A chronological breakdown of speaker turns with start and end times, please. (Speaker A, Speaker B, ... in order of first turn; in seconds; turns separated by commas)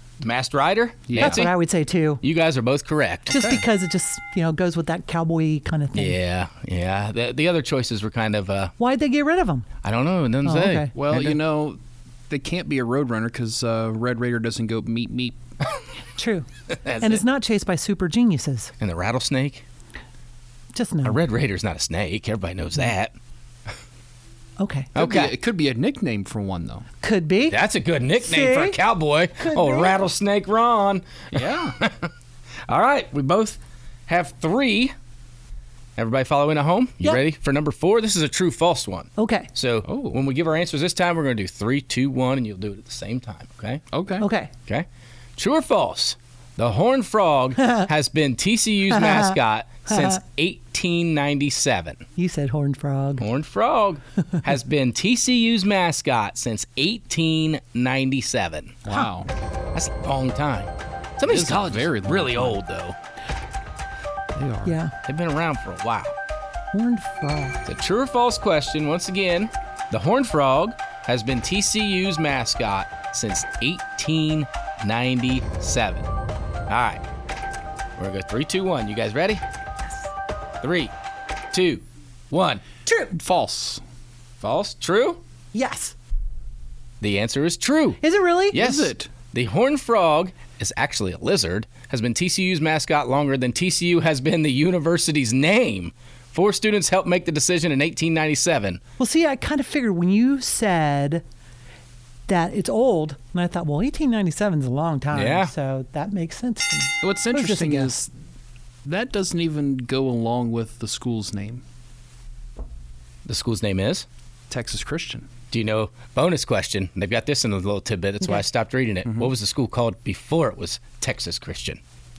Speaker A: 0.2-1.5, Speaker B: 1.1-1.4, Speaker C: 1.2-2.2, Speaker A: 2.2-3.3, Speaker B: 3.3-3.6, Speaker C: 3.3-6.2, Speaker A: 5.9-8.7, Speaker C: 8.8-9.7, Speaker A: 9.8-11.4, Speaker C: 10.4-10.9, Speaker B: 10.9-15.4, Speaker C: 16.1-16.5, Speaker A: 16.8-17.2, Speaker C: 17.0-18.7, Speaker A: 18.8-19.6, Speaker C: 20.7-21.2, Speaker A: 21.0-23.1, Speaker C: 24.6-24.9, Speaker A: 24.9-25.3, Speaker B: 24.9-26.9, Speaker C: 27.0-27.6, Speaker A: 27.5-32.1, Speaker C: 28.2-28.8, Speaker C: 29.4-30.0, Speaker B: 31.3-31.8, Speaker A: 32.7-34.9, Speaker A: 36.0-43.8, Speaker C: 39.2-39.5, Speaker B: 39.8-40.2, Speaker B: 43.9-44.2, Speaker C: 44.2-44.5, Speaker A: 45.4-52.0, Speaker C: 48.9-49.3, Speaker C: 49.9-50.2, Speaker C: 52.2-53.2, Speaker A: 53.2-58.8, Speaker B: 58.8-59.3, Speaker A: 59.7-63.0, Speaker B: 61.2-62.6, Speaker B: 64.3-64.8, Speaker C: 64.6-64.9, Speaker A: 65.0-66.1, Speaker C: 66.7-67.6, Speaker A: 67.7-76.1, Speaker A: 76.7-77.0, Speaker A: 78.0-79.4, Speaker A: 80.6-80.9, Speaker A: 81.5-82.6, Speaker C: 82.8-83.1, Speaker B: 83.1-83.8, Speaker A: 84.4-85.2, Speaker C: 85.5-85.9, Speaker A: 87.0-88.0, Speaker C: 88.0-88.6, Speaker B: 88.5-89.1, Speaker A: 88.5-98.8, Speaker C: 99.0-101.2, Speaker C: 102.3-108.1, Speaker A: 105.1-105.5, Speaker B: 107.0-108.1, Speaker B: 108.8-111.6, Speaker A: 113.2-114.0, Speaker B: 114.5-115.3, Speaker A: 115.5-121.8, Speaker B: 119.0-119.3